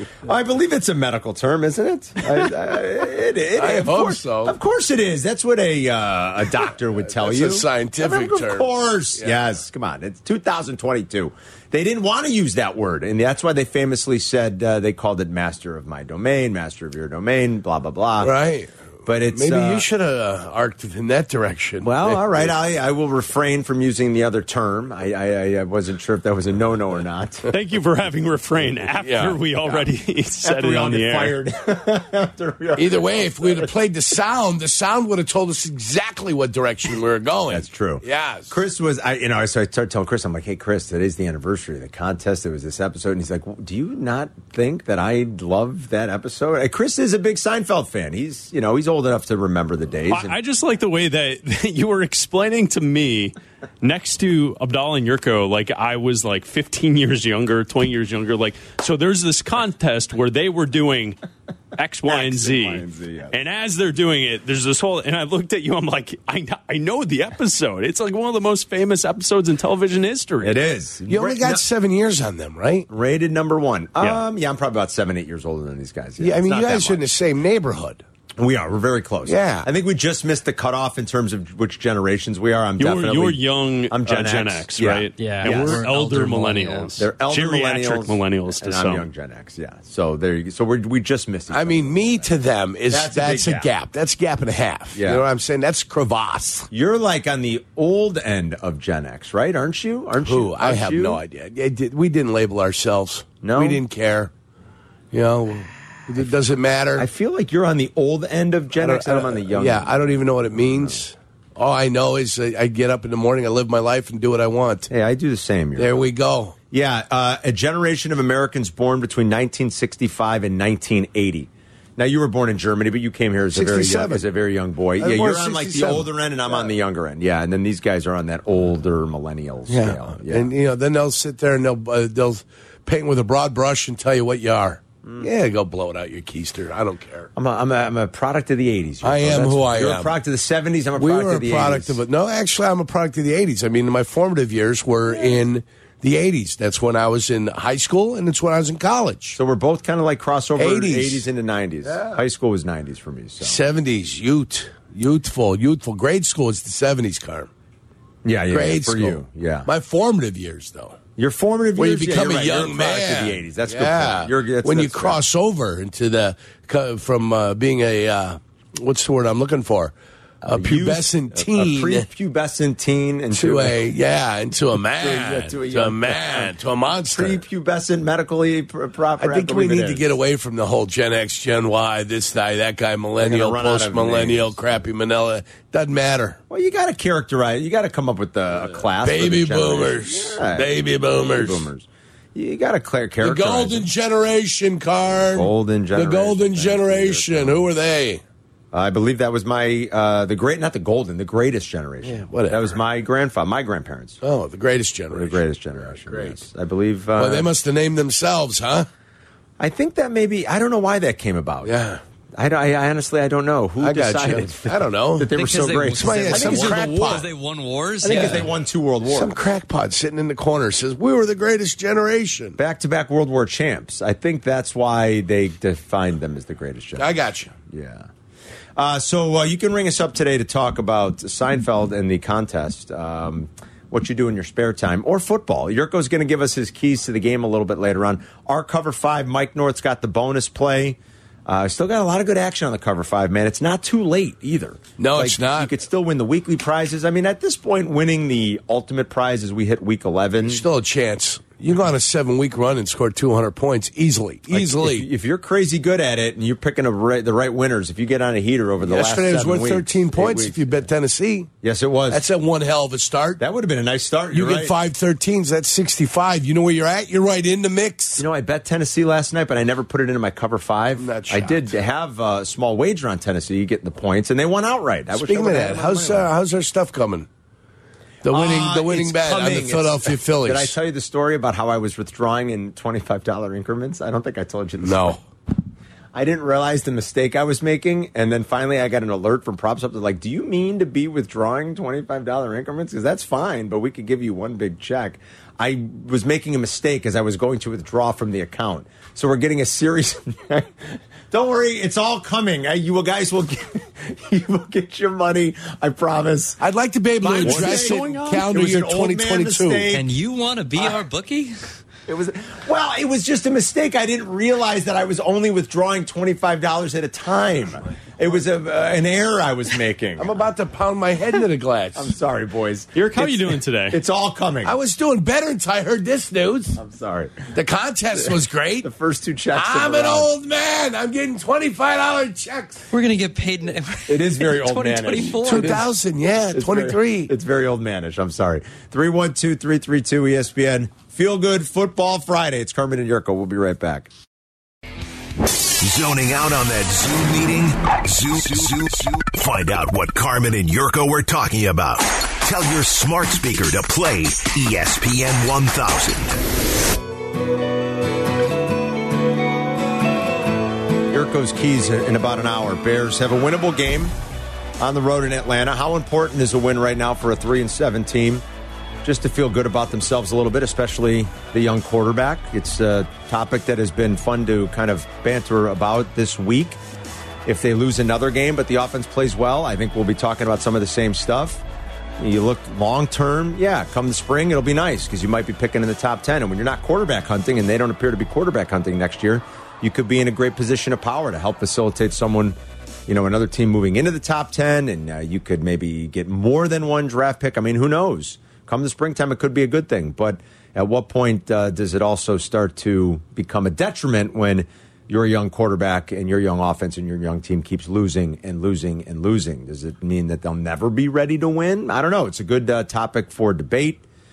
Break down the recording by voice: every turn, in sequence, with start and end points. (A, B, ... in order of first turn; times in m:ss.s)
0:00.2-0:18.3 A
0:03.6-0:04.6 B
0:07.0-0:09.4 B
0:18.2-0:22.5 B
0:19.1-0:19.9 A
0:21.8-0:27.5 A
0:27.5-0:31.4 C
0:29.0-0:29.4 B
0:30.4-0:33.7 A
0:32.8-0:38.6 B
0:37.5-0:50.4 A
0:50.1-1:01.2 C
1:01.8-1:10.6 C
1:02.1-1:03.4 A
1:10.4-1:11.6 A
1:11.1-1:12.9 B
1:12.9-1:17.0 A
1:16.2-1:18.0 B
1:18.4-1:25.8 A
1:19.3-1:19.7 B
1:22.8-1:29.1 C
1:25.2-1:27.0 D
1:27.0-1:32.3 A
1:31.5-1:36.7 B
1:32.9-1:33.7 A
1:35.0-1:35.2 A
1:36.7-1:41.2 A
1:40.2-1:44.3 B
1:43.4-1:43.8 A
1:45.1-1:47.1 B
1:47.0-1:51.0 A
1:48.8-1:54.9 B
1:54.9-1:56.1 A
1:55.8-1:56.6 B
1:56.7-2:10.5 A
2:03.5-2:04.3 B
2:05.0-2:06.7 B
2:09.7-2:17.3 B
2:15.0-2:15.3 A
2:17.4-2:22.0 A
2:19.0-2:20.1 B
2:21.0-2:29.4 B
2:29.4-2:33.6 A
2:30.6-2:31.3 B
2:31.9-2:32.2 B
2:33.4-2:37.5 B
2:38.2-2:39.7 A
2:38.5-2:41.0 B
2:41.2-2:45.2 A
2:41.8-2:52.1 B
2:50.4-2:53.9 A
2:53.3-2:57.4 B
2:54.9-2:56.6 A
2:57.1-3:00.0 A
2:59.2-3:06.4 B
3:03.2-3:04.6 A
3:06.5-3:13.9 A
3:09.0-3:11.7 B
3:13.2-3:18.2 B
3:15.3-3:17.6 A
3:18.7-3:24.2 A
3:22.0-3:22.8 B
3:24.2-3:26.4 B
3:25.1-3:27.5 A
3:27.2-3:28.9 B
3:29.6-3:31.7 A
3:31.6-3:32.0 B
3:32.4-3:37.3 A
3:33.8-3:35.3 B
3:35.3-3:38.5 D
3:35.9-3:37.3 B
3:38.0-3:39.3 A
3:38.1-3:38.5 B
3:39.1-3:42.6 B
3:42.6-3:48.1 A
3:47.0-3:47.5 B
3:48.8-4:10.6 A
4:05.0-4:05.7 B
4:10.4-4:15.1 B
4:14.5-4:20.7 A
4:18.8-4:21.5 B
4:21.6-4:22.3 A
4:22.1-4:23.4 B
4:23.4-4:24.7 A
4:24.3-4:28.2 B
4:28.2-4:36.3 A
4:31.0-4:31.8 B
4:35.1-4:37.3 B
4:38.2-4:40.8 B
4:38.3-4:45.2 A
4:44.8-4:45.2 B
4:46.1-5:06.6 A
5:06.6-5:09.9 B
5:07.2-5:10.1 A
5:09.9-5:11.7 D
5:12.1-5:20.3 A
5:20.2-5:22.1 B
5:22.0-5:24.8 A
5:22.9-5:24.0 C
5:24.6-5:26.8 B
5:26.8-5:27.5 A
5:27.5-5:28.9 B
5:28.2-5:30.3 A
5:29.5-5:32.8 B
5:32.9-5:35.8 D
5:34.1-5:35.8 A
5:35.4-5:37.3 B
5:36.5-5:44.1 A
5:45.8-5:56.3 E
6:01.1-6:04.1 A
6:04.8-6:08.4 A
6:09.0-6:16.8 A
6:17.5-6:21.6 A
6:22.2-6:54.0 A